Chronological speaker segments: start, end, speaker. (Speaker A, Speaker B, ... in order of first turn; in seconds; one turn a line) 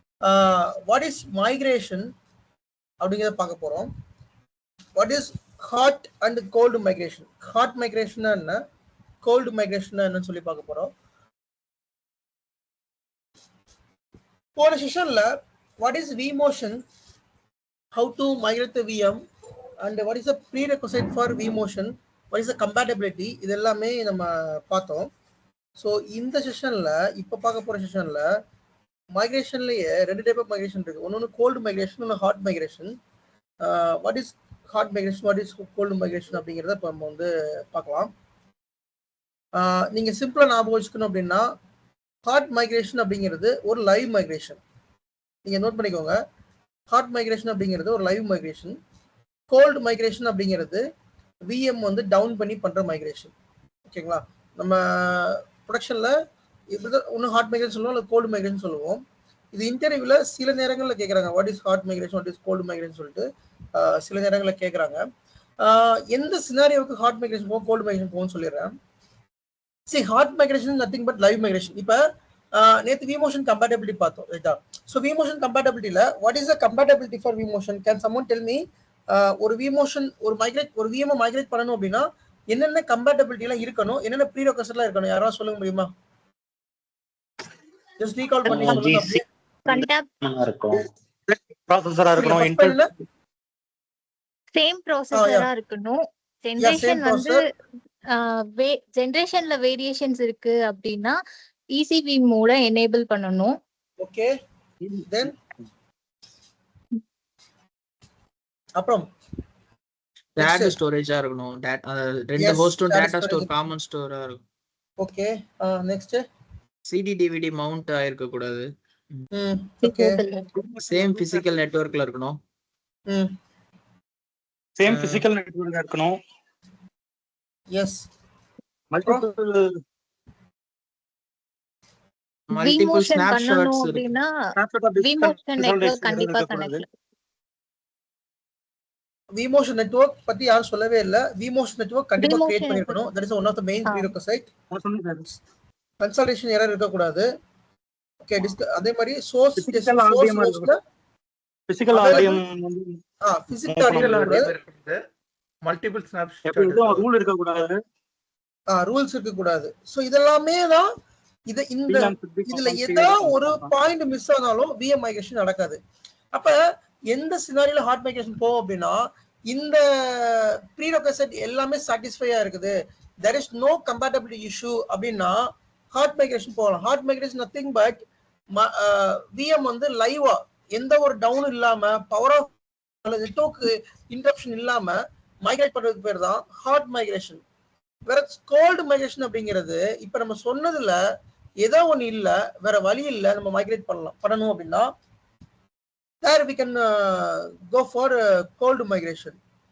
Speaker A: 0.2-2.1
Speaker A: 3.0-3.9
Speaker A: 5.0-8.6
Speaker A: 9.2-10.9
Speaker A: 14.6-15.3
Speaker A: 15.8-16.8
Speaker A: 17.9-19.2
Speaker A: 19.8-25.1
Speaker A: 25.8-28.2
Speaker A: 29.1-32.9
Speaker A: 33.6-38.1
Speaker A: 39.5-41.5
Speaker A: 42.3-44.6
Speaker A: 45.5-46.2
Speaker A: 46.9-48.8
Speaker A: 49.5-50.8
Speaker A: 51.5-53.3
Speaker A: 53.9-56.1
Speaker A: 56.7-59.0
Speaker A: 59.5-65.0
Speaker A: 65.6-68.7
Speaker A: 69.9-72.0
Speaker A: 72.6-78.6
Speaker A: 79.1-85.9
Speaker A: 88.0-89.2
Speaker B: 88.5-90.8
Speaker C: 89.7-90.1
Speaker D: 91.3-92.8
Speaker A: 92.2-92.9
Speaker C: 94.5-97.4
Speaker A: 95.1-95.5
Speaker A: 96.6-97.4
Speaker C: 98.1-101.2
Speaker C: 101.8-103.5
Speaker A: 104.0-104.3
Speaker A: 108.8-109.1
Speaker E: 110.4-114.4
Speaker A: 110.4-110.8
Speaker A: 112.4-113.5
Speaker A: 115.0-116.2
Speaker E: 116.9-119.2
Speaker A: 119.3-120.2
Speaker C: 119.8-120.5
Speaker D: 120.6-121.5
Speaker E: 120.9-122.4
Speaker D: 124.8-126.2
Speaker E: 124.9-125.3
Speaker A: 127.7-128.0
Speaker D: 128.9-129.7
Speaker E: 132.5-134.1
Speaker C: 132.5-134.3
Speaker D: 134.6-136.8
Speaker C: 135.0-136.8
Speaker A: 139.3-144.5
Speaker C: 142.2-142.9
Speaker C: 143.8-144.1
Speaker D: 144.7-145.3
Speaker A: 146.0-147.3
Speaker A: 148.2-150.8
Speaker D: 149.6-150.7
Speaker D: 151.7-153.0
Speaker A: 151.9-152.4
Speaker A: 153.2-154.5
Speaker D: 153.7-154.4
Speaker F: 154.0-155.0
Speaker F: 155.6-157.0
Speaker D: 156.4-157.8
Speaker A: 158.7-160.9
Speaker A: 161.5-165.8
Speaker D: 161.9-163.7
Speaker A: 166.3-166.6
Speaker A: 167.1-169.0
Speaker A: 169.5-178.0
Speaker A: 178.6-182.5
Speaker A: 183.0-187.4
Speaker A: 188.1-191.0
Speaker A: 191.6-194.9
Speaker A: 196.2-199.4